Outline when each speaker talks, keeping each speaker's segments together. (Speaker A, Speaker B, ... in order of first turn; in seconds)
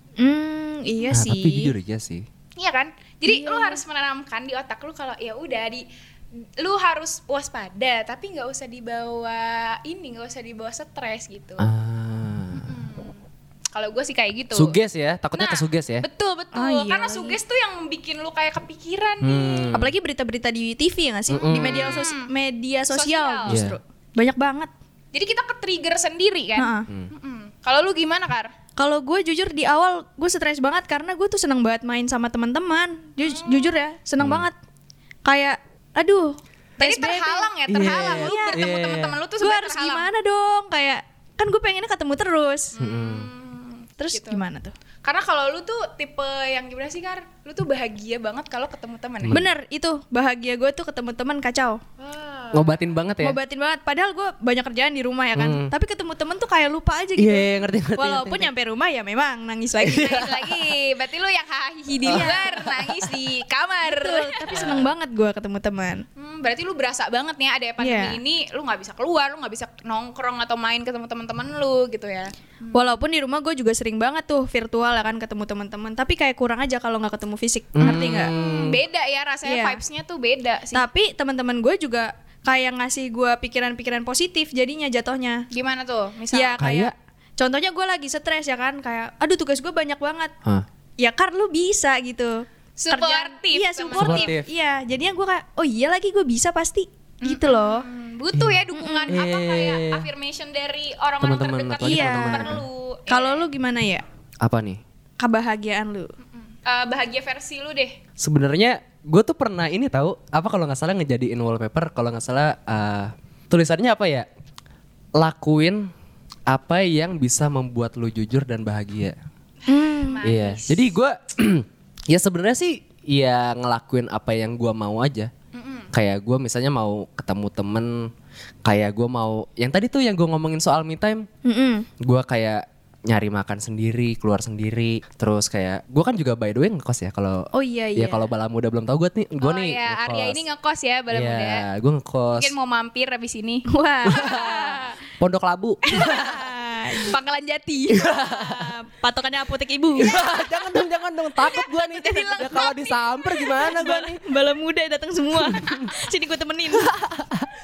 Speaker A: 0.2-1.7, 3.3-3.8, 16.5-17.4, 19.7-24.7, 26.6-26.9, 28.8-34.6, 35.2-38.7, 39.4-42.7, 44.0-44.7, 49.3-51.8, 53.2-60.2, 62.1-62.8, 63.8-66.0, 67.8-68.2, 72.7-78.3, 79.4-79.8, 80.7-85.5, 86.3-90.3, 91.0-97.8, 98.7-99.2, 101.8-104.0, 105.2-106.1, 119.7-120.2, 131.4-131.9, 137.5-138.3, 143.7-144.4, 145.9-147.2, 148.2-150.2, 152.1-152.8, 153.4-157.0
Speaker B: 1.1-2.3, 11.6-12.7, 14.5-16.1, 19.2-19.9, 21.3-22.1, 23.5-23.8, 34.2-34.5, 37.7-39.2, 42.8-43.3, 49.2-49.5, 52.5-53.4, 55.4-55.7, 57.2-58.5, 59.8-60.6, 62.1-62.4, 64.5-64.9, 77.7-78.8, 86.6-86.9, 94.0-94.5, 98.3-100.1, 101.2-102.6, 104.4-104.8, 108.2-114.3, 115.2-115.9, 116.5-119.2, 120.2-125.3, 125.9-128.1, 128.6-131.3, 132.0-140.4, 141.1-142.6, 144.1-146.4, 147.9-148.8, 150.0-154.2, 155.4-155.9, 156.7-157.5
Speaker C: 2.6-5.9, 6.6-11.7, 12.6-13.2, 13.7-14.8, 15.3-19.8, 21.4-22.3, 22.9-23.6, 25.1-28.5, 33.2-33.9, 36.8-40.1, 42.7-44.4, 45.0-49.4, 52.0-52.8, 59.8-64.8, 66.2-73.0, 77.8-80.9, 85.5-86.6, 92.8-94.4, 97.2-103.5, 106.4-108.0, 119.7-121.0, 125.5-125.9, 139.4-141.7, 142.3-145.0, 145.8-146.4, 146.9-148.2, 150.1-150.4, 151.6-153.1